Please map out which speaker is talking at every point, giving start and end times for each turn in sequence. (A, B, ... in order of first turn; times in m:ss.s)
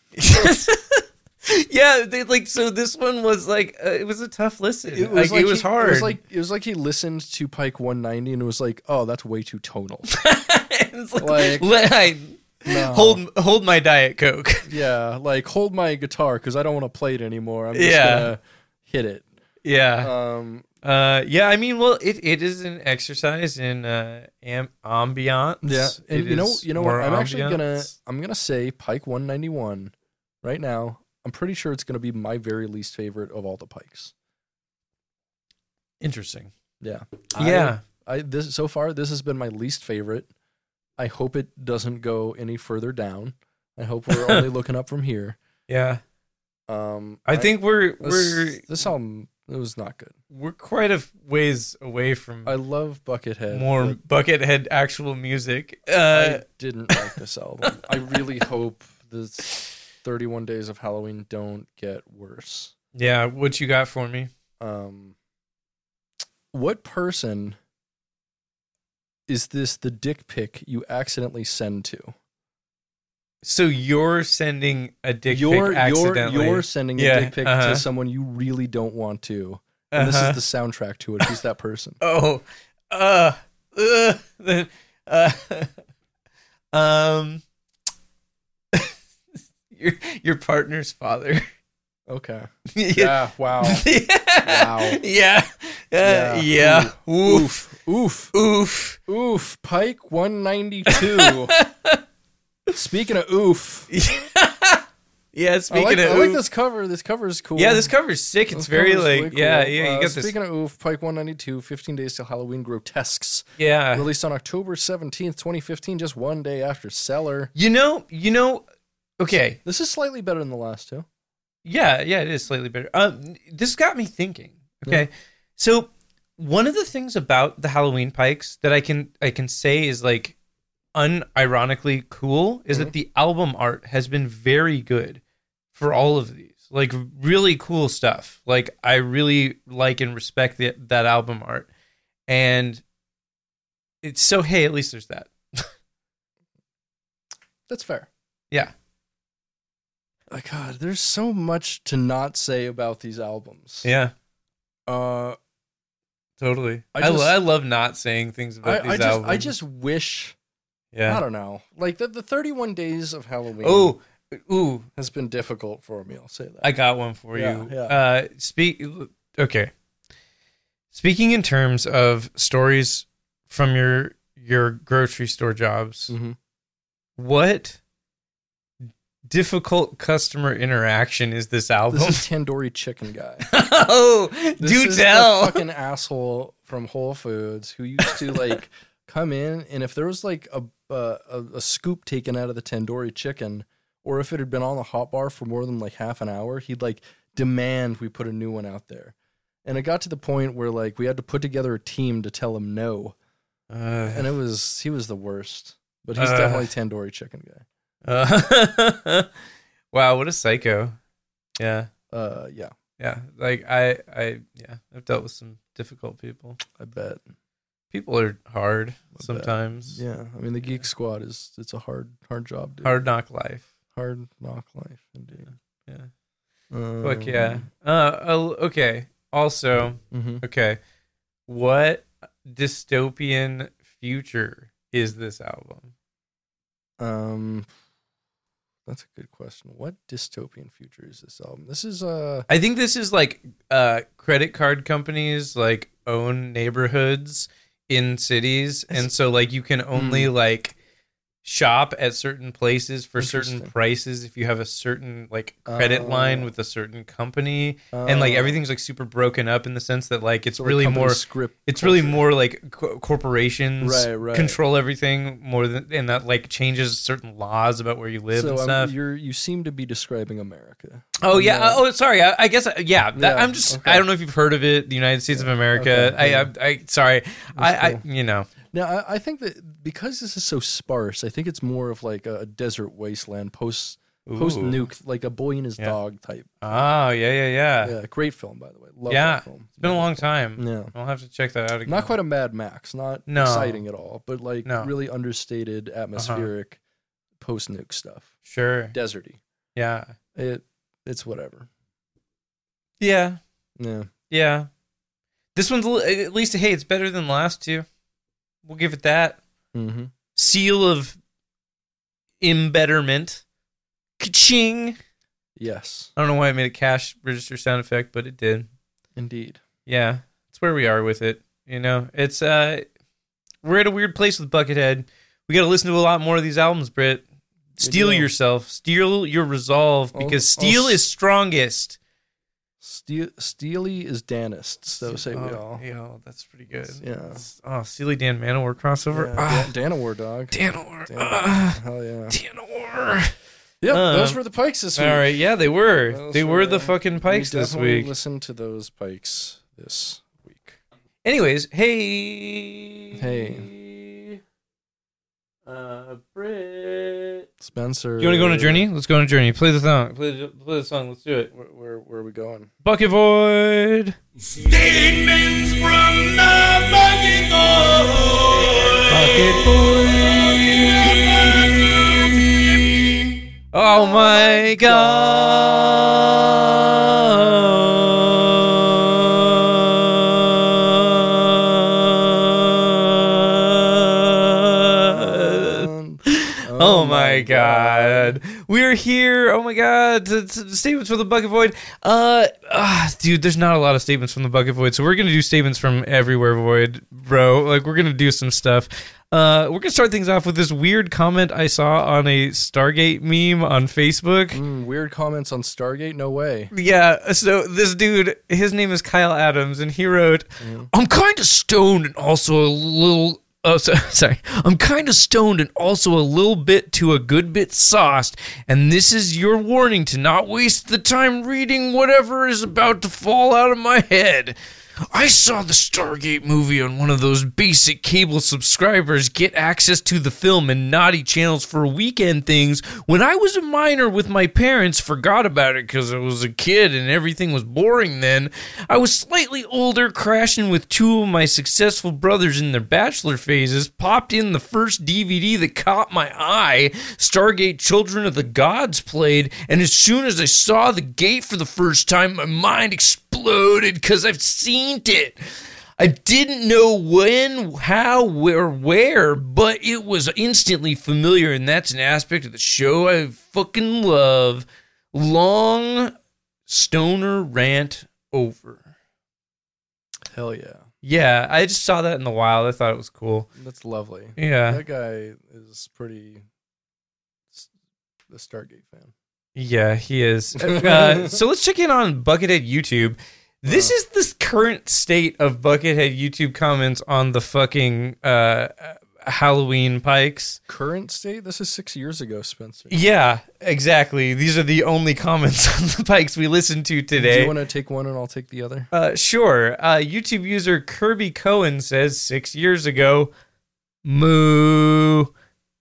0:00.2-0:06.2 A
0:04.9-0:10.1 B
0:10.1-0:14.7 A
0:11.2-0:11.7 B
0:12.6-0:13.2 B
0:14.6-0:19.3 B
0:17.7-0:18.3 A
0:19.6-0:20.1 A
0:20.0-0:20.6 B
0:20.8-0:27.9 A
0:25.6-0:34.1 B
0:36.0-0:36.5 A
0:36.8-0:40.3 B
0:37.4-0:37.8 A
0:41.0-0:45.4 B
0:44.1-0:44.4 A
0:45.7-0:46.0 A
0:46.7-0:50.1 B
0:47.3-0:48.7 A
0:50.3-0:52.5 A
0:52.4-0:54.0 B
0:53.5-0:57.0 A
0:56.1-1:02.7 B
1:02.9-1:04.3 A
1:04.6-1:05.1 B
1:06.5-1:07.6 B
1:09.3-1:12.1 B
1:13.4-1:17.8 A
1:15.3-1:22.0 B
1:19.9-1:20.4 A
1:22.0-1:25.7 A
1:26.7-1:27.4 A
1:29.7-1:31.4 A
1:32.1-1:33.8 B
1:32.7-1:37.7 A
1:34.4-1:35.0 B
1:36.0-1:38.3 B
1:38.3-1:39.0 A
1:39.1-1:41.5 B
1:40.9-1:42.0 A
1:42.7-1:43.9 B
1:43.9-1:44.8 A
1:45.3-1:46.4 A
1:45.7-1:47.9 B
1:47.6-1:50.3 A
1:48.5-1:57.5 B
1:53.6-1:54.1 A
1:57.5-1:58.6 A
1:59.2-1:59.6 A
1:59.6-2:01.0 B
2:01.6-2:10.4 A
2:10.9-2:15.2 A
2:15.7-2:21.7 A
2:22.3-2:22.8 A
2:24.0-2:25.7 A
2:27.7-2:28.1 B
2:30.3-2:33.8 B
2:33.8-2:34.1 A
2:34.9-2:35.4 B
2:36.4-2:39.5 A
2:36.9-2:37.3 B
2:38.6-2:40.4 B
2:40.9-2:41.2 A
2:41.0-2:43.9 B
2:43.6-2:44.9 A
2:45.0-2:46.7 B
2:46.6-2:49.7 A
2:47.3-2:47.9 B
2:50.9-2:56.1 A
2:56.1-2:56.4 B
2:57.2-2:57.8 A
2:59.3-3:02.2 A
3:01.9-3:03.5 B
3:03.5-3:05.6 A
3:04.6-3:23.2 B
3:23.7-3:24.3 A
3:24.1-3:27.6 B
3:26.2-3:26.7 A
3:28.0-3:29.3 A
3:29.9-3:31.0 A
3:31.6-3:31.9 A
3:32.1-3:32.7 B
3:33.0-3:36.6 A
3:36.7-3:37.2 B
3:37.9-3:40.0 A
3:39.2-3:43.0 B
3:42.8-3:43.6 A
3:43.9-3:45.5 B
3:46.7-3:47.6 B
3:47.0-3:50.8 A
3:50.0-3:50.4 B
3:51.5-3:55.9 A
3:57.0-3:57.7 B
3:58.8-4:02.5 B
4:02.5-4:10.7 A
4:09.9-4:10.3 B
4:11.4-4:28.9 A
4:13.2-4:13.7 B
4:15.7-4:16.5 B
4:17.9-4:18.6 B
4:20.6-4:22.2 B
4:23.8-4:24.6 B
4:28.3-4:31.8 B
4:31.2-4:38.5 A
4:33.2-4:34.0 B
4:35.3-4:36.5 B
4:37.6-4:38.0 B
4:38.7-4:46.5 B
4:44.2-4:44.8 A
4:46.6-4:48.0 A
4:47.8-4:50.9 B
4:49.1-4:52.2 A
4:51.8-4:56.8 B
4:53.3-4:53.8 A
4:54.6-4:54.9 A
4:56.2-4:56.5 A
4:57.4-4:58.3 B
4:58.4-4:58.9 A
4:58.9-4:59.4 B
4:59.8-5:00.1 A
5:00.3-5:01.7 B
5:03.0-5:03.4 A
5:03.8-5:04.1 B
5:04.3-5:04.7 A
5:05.5-5:07.8 A
5:08.6-5:09.4 A
5:09.7-5:10.1 B
5:10.3-5:11.2 A
5:12.4-5:13.4 A
5:14.2-5:15.0 A
5:15.6-5:16.1 B
5:16.2-5:18.7 A
5:19.1-5:19.6 B
5:19.8-5:22.9 A
5:23.6-5:27.2 A
5:27.8-5:32.0 A
5:27.8-5:28.3 B
5:30.1-5:31.0 B
5:32.8-5:35.8 B
5:35.1-5:39.7 A
5:37.0-5:37.4 B
5:39.1-5:40.6 B
5:40.5-5:41.8 A
5:41.1-5:42.4 B
5:42.3-5:43.3 A
5:43.8-5:45.3 B
5:43.9-5:44.4 A
5:45.0-5:48.1 A
5:46.1-5:50.8 B
5:51.2-5:54.4 A
5:53.2-5:53.7 B
5:55.6-5:57.5 A
5:57.6-5:58.9 B
5:58.2-6:01.5 A
6:01.5-6:02.7 B
6:02.8-6:04.2 A
6:04.4-6:13.3 C
6:09.1-6:10.2 A
6:13.7-6:44.6 A
6:14.0-6:15.6 B
6:25.4-6:28.4 B
6:44.5-6:46.7 B
6:46.7-7:04.6 A
6:50.6-6:50.9 B
7:05.1-7:35.4 A
7:36.0-7:46.1 A
7:46.7-7:48.9 A
7:50.3-7:50.8 B
7:51.0-7:53.5 A
7:53.6-7:56.4 B
7:54.4-7:54.8 A
7:58.3-7:59.1 B
7:59.6-8:10.6 A
8:00.6-8:01.4 B
8:03.7-8:03.9 B
8:10.7-8:13.0 B
8:12.9-8:17.5 A
8:17.2-8:18.9 B
8:18.9-8:23.3 A
8:24.0-8:25.3 A